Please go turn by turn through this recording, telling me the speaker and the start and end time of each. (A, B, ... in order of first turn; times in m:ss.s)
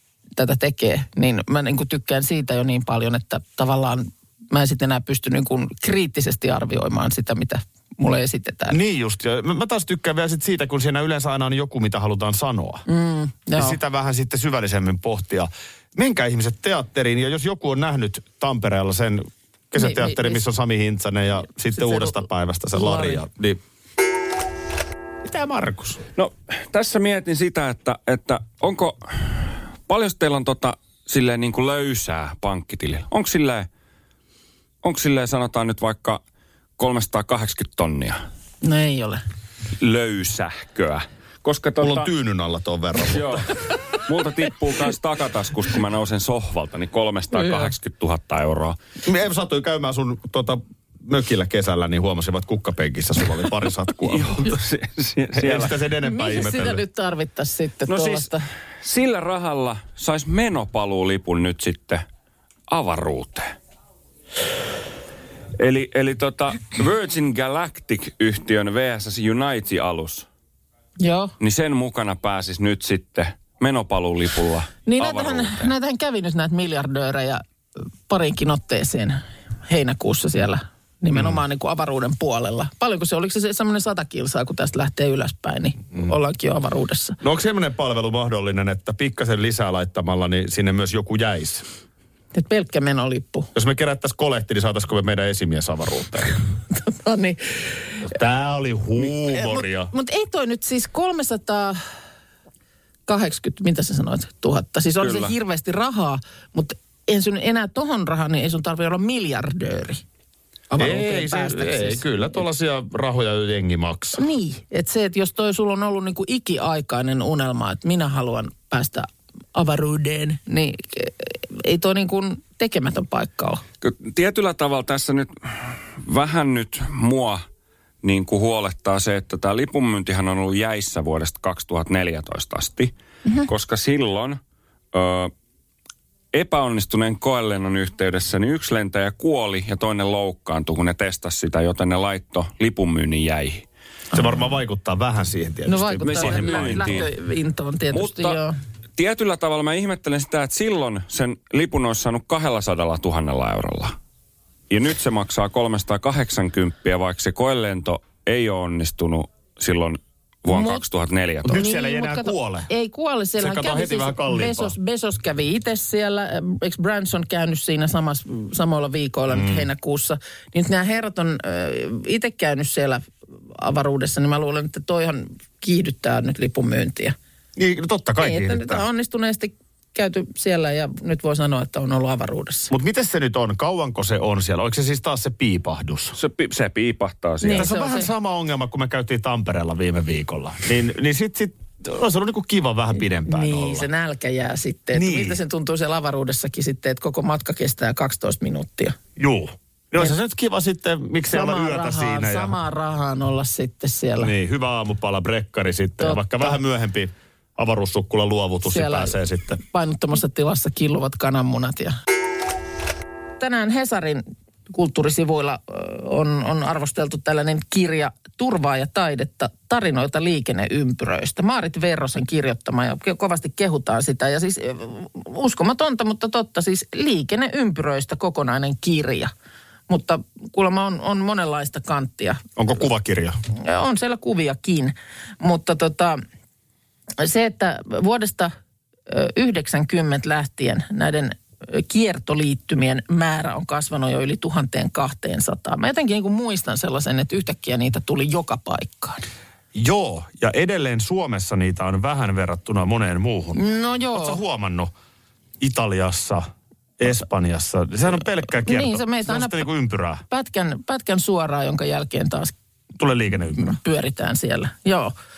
0:00.4-0:08.8 A
0:08.7-0:12.8 B
0:12.9-0:13.8 A
0:13.6-0:23.6 B
0:19.8-0:20.4 A
0:21.7-0:23.2 A
0:25.2-0:26.0 B
0:26.2-0:33.7 C
0:34.8-0:36.2 C
0:36.8-0:38.2 C
0:38.6-0:39.2 A
0:39.8-0:42.1 C
0:41.8-0:43.5 B
0:43.1-0:48.8 C
0:47.3-0:47.7 A
0:49.0-0:54.5 B
0:54.1-0:55.8 C
0:55.3-0:56.8 B
0:56.0-0:58.4 A
0:57.9-1:02.0 C
1:02.7-1:03.5 C
1:05.6-1:10.3 C
1:11.0-1:11.3 A
1:11.4-1:15.7 C
1:14.9-1:17.4 A
1:18.1-1:27.2 A
1:21.1-1:21.4 B
1:27.2-1:31.7 B
1:32.3-1:33.5 A
1:33.5-1:36.4 B
1:36.7-1:37.4 A
1:38.1-1:39.9 B
1:39.1-1:41.8 A
1:43.1-1:50.0 A
1:50.7-1:52.4 A
1:50.8-1:54.2 B
1:54.2-2:03.6 A
2:03.8-2:05.3 C
2:06.0-2:07.4 C
2:08.0-2:12.9 C
2:13.5-2:14.4 C
2:14.9-2:15.3 C
2:16.3-2:23.6 C
2:24.1-2:24.4 A
2:24.1-2:27.1 B
2:25.7-2:28.6 A
2:26.0-2:27.1 C
2:27.9-2:28.4 C
2:29.0-2:34.0 C
2:34.7-2:41.6 C
2:40.5-2:40.8 A
2:41.4-2:42.7 B
2:41.5-2:57.2 A
2:43.4-2:44.7 B
2:49.3-2:49.7 B
2:57.6-2:58.8 B
2:58.2-3:02.7 A
3:02.7-3:06.2 B
3:06.2-3:07.7 C
3:07.4-3:08.1 A
3:07.5-3:13.9 B
3:13.3-3:19.0 A
3:14.9-3:15.4 B
3:19.2-3:22.6 B
3:21.3-3:24.3 A
3:24.2-3:29.6 B
3:26.0-3:26.6 A
3:28.6-3:32.0 A
3:33.4-3:49.3 A
3:49.9-3:52.4 A
3:52.6-3:53.4 B
3:53.5-3:56.2 A
3:57.2-3:58.5 A
3:59.1-4:09.3 A
4:09.7-4:13.6 B
4:13.6-4:14.4 A
4:14.1-4:14.9 B
4:15.6-4:16.5 B
4:17.0-4:20.2 B
4:18.6-4:19.7 A
4:20.3-4:22.6 A
4:23.0-4:23.8 B
4:23.6-4:25.1 A